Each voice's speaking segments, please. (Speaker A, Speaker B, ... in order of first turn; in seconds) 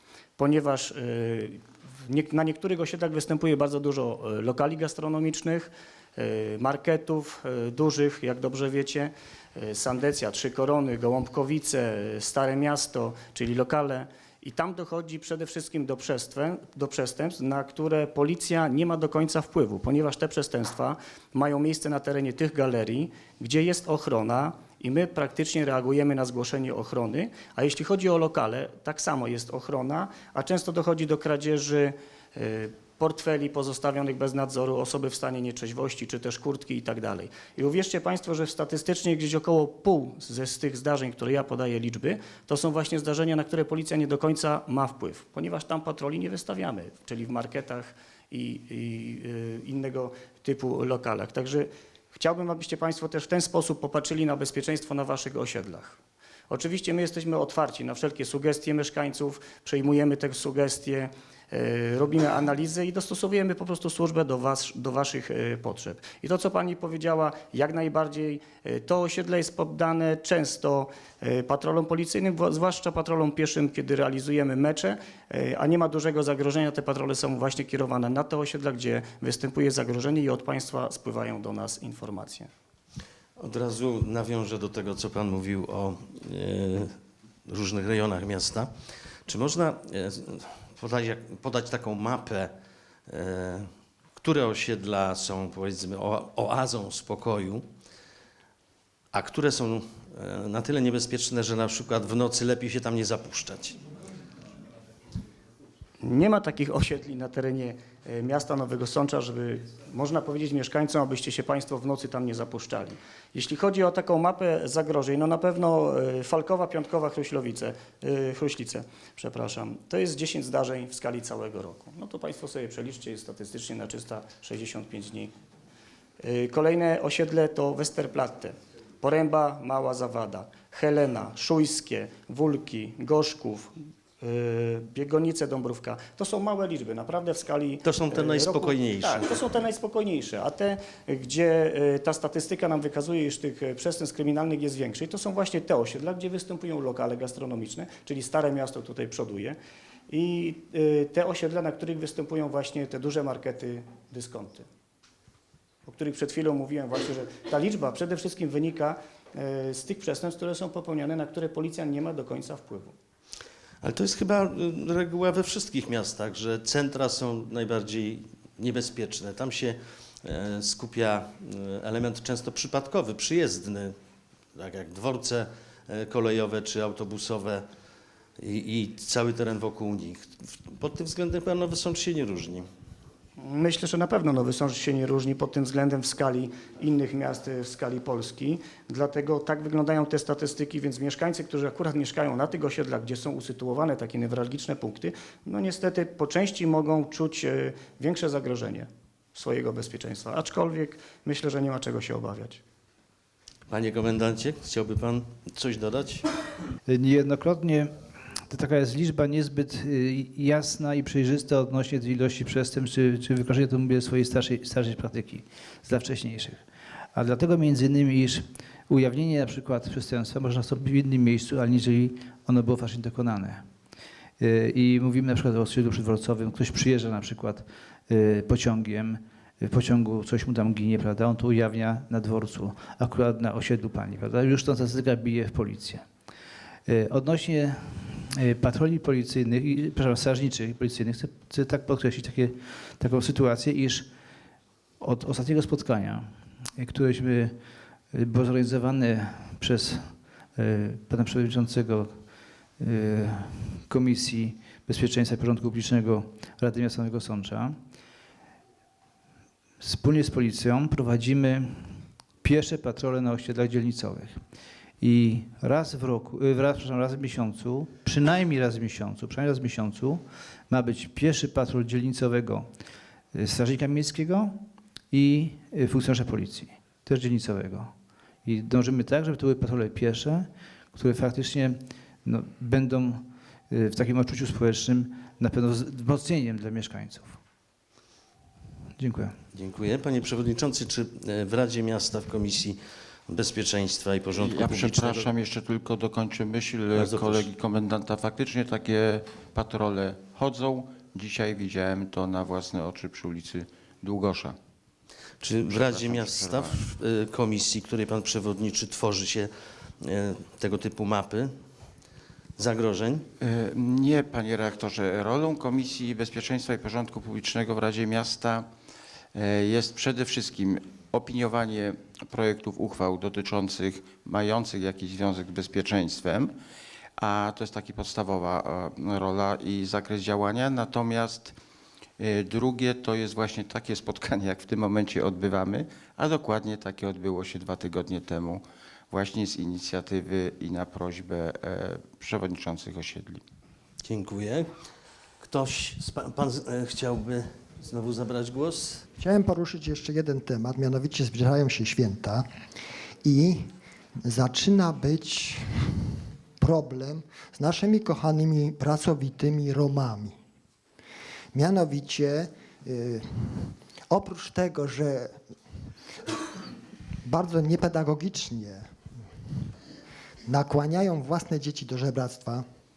Speaker A: 0.4-82.5, 106.0-125.3, 126.2-149.6, 150.1-154.7, 155.8-162.9, 183.4-202.6
Speaker B: 83.4-86.9, 87.5-88.7, 89.2-92.5, 93.1-97.7, 99.1-103.8, 137.8-139.4, 163.8-173.9, 174.5-177.6, 178.4-182.7, 203.7-206.3, 289.5-295.3, 296.9-297.5, 305.4-311.5, 312.6-313.3, 344.0-344.7, 345.4-349.0
Speaker C: 206.9-207.9, 208.5-216.6, 217.1-223.6, 224.4-236.1, 236.9-244.1, 245.0-247.6, 248.1-252.2, 252.8-257.8, 259.8-261.9, 262.4-264.4, 265.0-272.7, 273.3-277.9, 278.4-287.4, 289.0-289.4
Speaker D: 294.4-304.6, 305.7-306.8, 313.4-318.7, 319.3-326.5, 327.2-331.6, 332.2-343.4
Speaker E: 349.2-352.5, 353.2-353.7, 354.2-356.0, 356.6-360.4, 361.5-365.4, 367.2-368.9, 370.5-372.6